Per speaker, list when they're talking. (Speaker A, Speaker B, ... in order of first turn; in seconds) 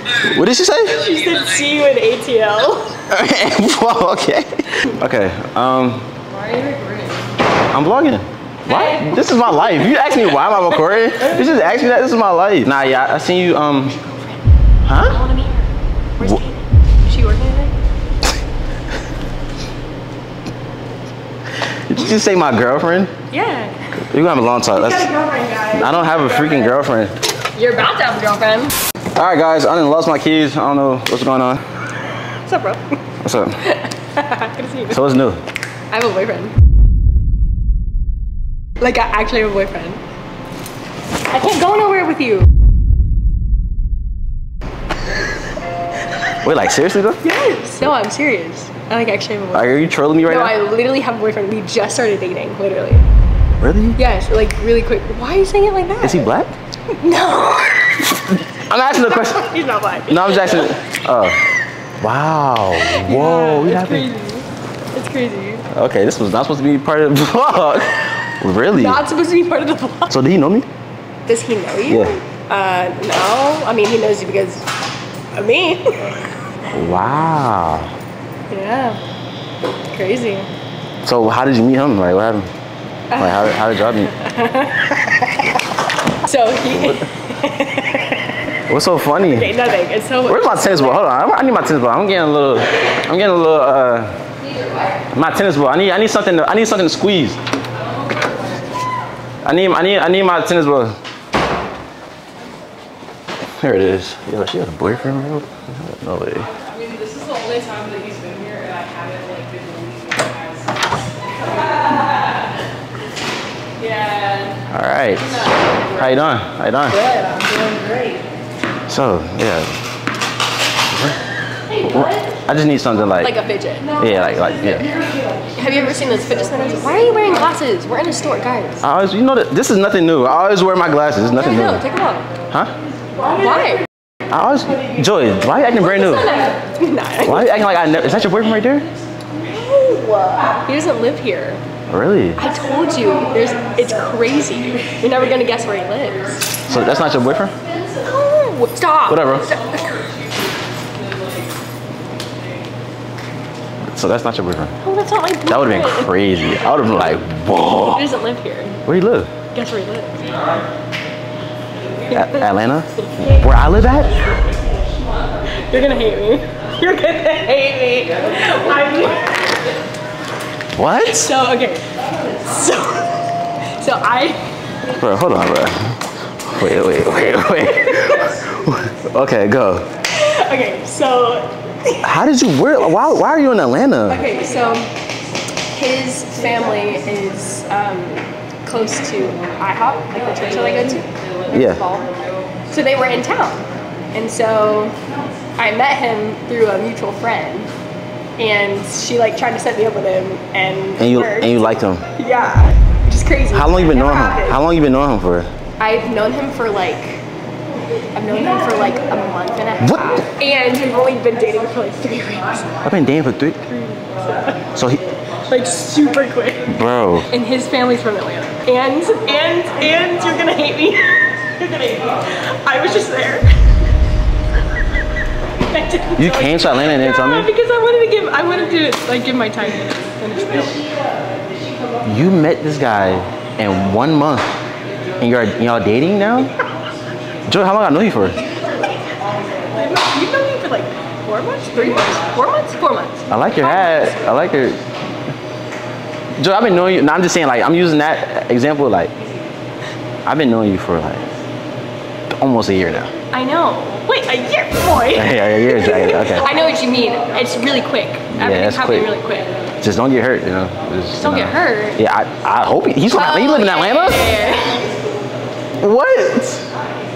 Speaker A: 0.2-1.0, 3.1-6.1, 7.7-13.9, 14.8-15.2, 21.9-23.1, 24.0-25.1, 25.7-27.2, 29.1-31.6, 33.2-33.6, 34.9-35.4, 46.4-47.2, 49.5-50.5, 53.6-54.0, 56.0-56.5, 58.5-59.5, 60.1-61.4, 62.0-64.1, 65.7-69.0, 70.1-70.7, 71.9-72.2, 76.7-77.9, 81.0-82.5, 83.2-84.1, 86.7-87.0, 88.7-89.5, 90.2-94.2, 95.1-97.4, 99.4-101.0, 103.6-106.5, 114.7-117.0, 118.9-119.8, 120.9-121.2, 121.8-123.3, 124.0-124.9, 128.8-131.8, 134.3-136.4, 137.2-138.9, 141.9-142.4, 146.7-147.6, 149.1-149.5, 153.9-154.8, 155.5-158.1, 158.8-159.3, 162.1-164.2, 170.8-171.3, 174.9-179.9, 182.0-184.2, 191.5-191.8, 201.0-202.1, 203.5-205.5, 209.8-210.3, 212.8-213.6, 214.7-215.0, 216.7-217.3, 226.2-227.5, 232.0-234.6, 235.2-236.5, 237.4-238.4, 243.3-244.8, 246.4-249.1, 250.2-251.3, 252.3-253.1, 255.1-256.5, 258.3-259.1, 259.8-264.3, 265.8-266.7
Speaker B: 0.9-3.0, 6.3-7.2, 8.7-9.2, 13.9-14.4, 15.0-17.7, 23.3-23.9, 25.1-25.8, 27.5-28.7, 32.3-32.8, 33.6-35.0, 35.9-36.5, 38.8-40.0, 41.3-42.5, 47.2-53.0, 54.0-56.3, 56.9-61.3, 62.8-65.7, 68.7-70.2, 71.2-74.7, 75.3-76.2, 78.5-79.0, 79.9-80.5, 83.1-83.6, 84.1-85.6, 86.1-88.5, 89.2-91.0, 116.9-117.9, 123.2-124.0, 125.5-128.8, 131.3-132.3, 133.2-133.8, 135.8-137.5, 139.3-141.6, 142.4-146.6, 148.0-150.1, 154.8-156.1, 157.9-158.8, 159.5-160.4, 162.1-162.4, 165.5-169.5, 171.0-174.5, 177.5-178.4, 180.1-182.0, 184.1-184.9, 185.7-192.1, 192.7-194.9, 195.6-197.7, 198.4-204.6, 205.8-207.2, 208.1-212.8, 213.6-214.7, 215.5-216.7, 217.3-223.7, 225.7-230.8, 239.1-244.2, 253.3-259.5, 261.1-262.0, 263.1-264.9
Speaker C: 106.8-110.2